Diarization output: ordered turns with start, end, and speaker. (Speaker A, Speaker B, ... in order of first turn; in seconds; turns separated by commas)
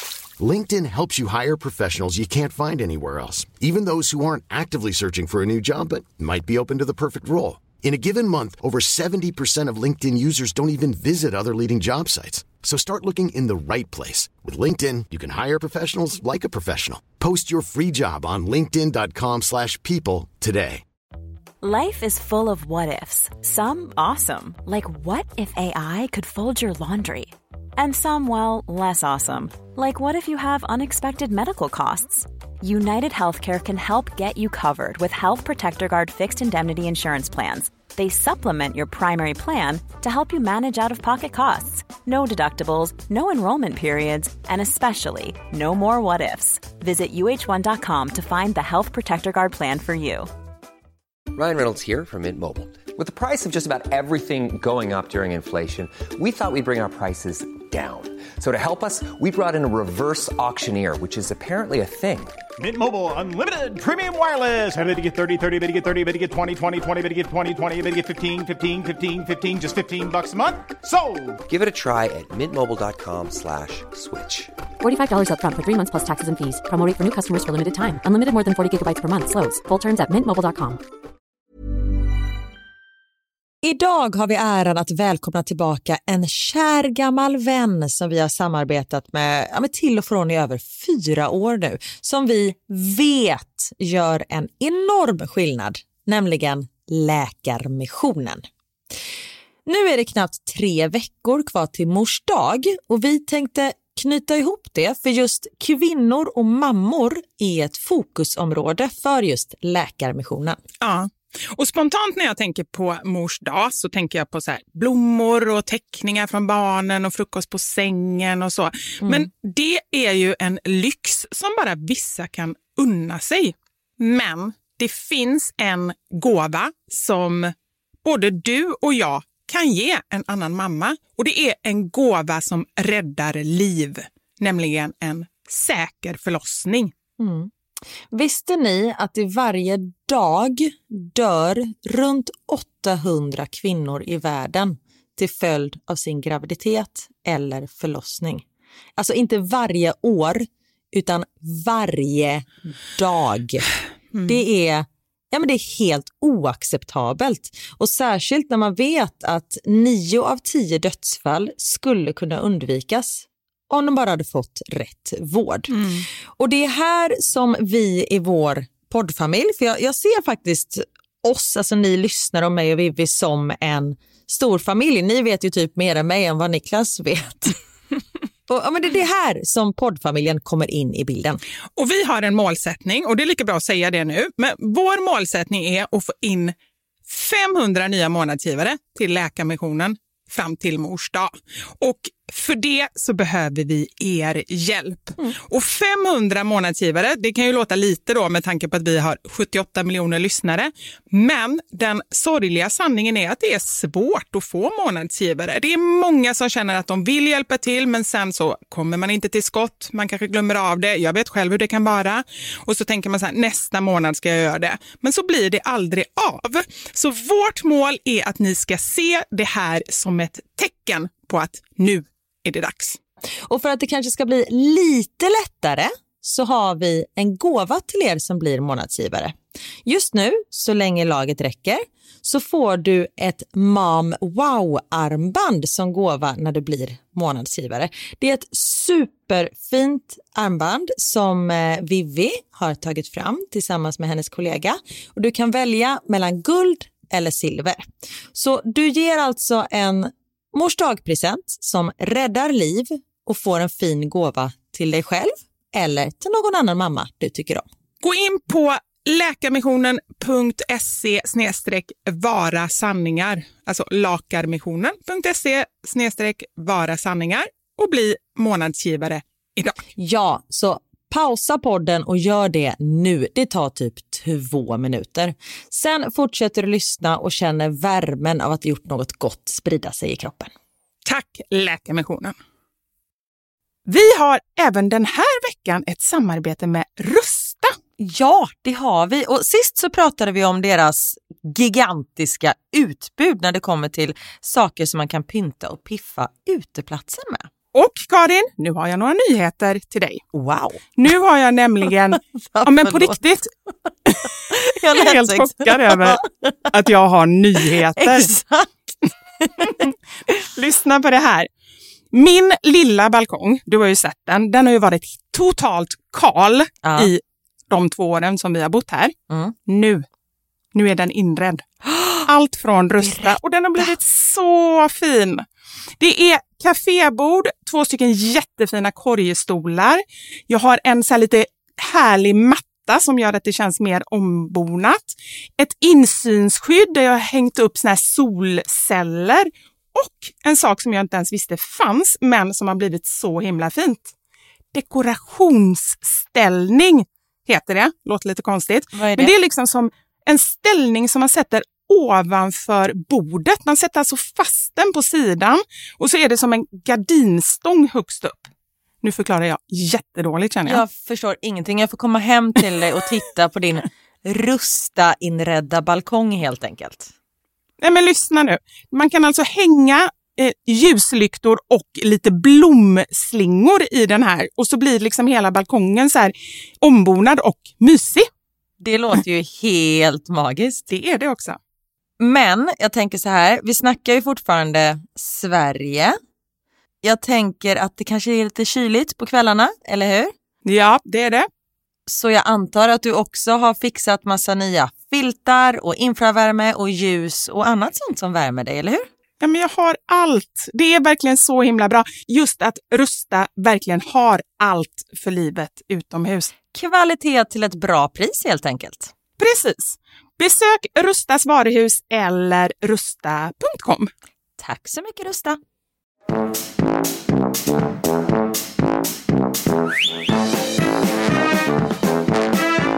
Speaker A: 0.4-20.8, Speaker B: 21.6-50.3, Speaker C: 51.3-62.4, Speaker D: 62.6-71.4, Speaker C: 71.5-74.5, Speaker E: 74.8-80.8, Speaker F: 83.6-98.5, Speaker F: 99.7-110.6, Speaker G: 110.8-127.5, Speaker F: 119.0-119.3, Speaker G: 128.0-136.9, Speaker F: 137.2-137.5, Speaker F: 138.1-148.4, Speaker F: 148.9-153.7, Speaker F: 154.2-177.6, Speaker G: 165.7-166.0, Speaker F: 178.5-181.4, Speaker G: 181.8-186.5, Speaker G: 187.1-223.0, Speaker F: 223.4-257.6, Speaker G: 258.0-269.8, Speaker F: 270.0-280.5, Speaker G: 281.1-282.4, Speaker G: 283.9-287.7, Speaker F: 288.0-297.5, Speaker G: 297.7-300.2, Speaker F: 300.3-300.8, Speaker G: 300.9-303.5, Speaker F: 302.3-303.2, Speaker G: 304.1-304.3, Speaker F: 304.5-306.6, Speaker G: 304.9-308.3, Speaker F: 307.8-308.7, Speaker F: 309.4-309.7, Speaker G: 309.6-311.5, Speaker G: 312.1-319.1, Speaker F: 316.8-317.1, Speaker G: 319.6-320.0, Speaker G: 320.7-321.6, Speaker F: 321.9-322.2, Speaker G: 322.2-325.4, Speaker G: 326.0-344.1, Speaker G: 344.7-358.5, Speaker F: 348.9-349.3, Speaker G: 359.0-360.8, Speaker F: 360.6-367.1, Speaker G: 367.8-378.3, Speaker F: 378.8-380.9, Speaker G: 380.9-381.6, Speaker F: 382.2-386.2, Speaker F: 387.0-390.3, Speaker G: 390.6-391.5, Speaker F: 392.1-399.1, Speaker G: 399.4-406.5, Speaker F: 406.7-409.1, Speaker G: 409.4-414.1, Speaker F: 414.6-415.6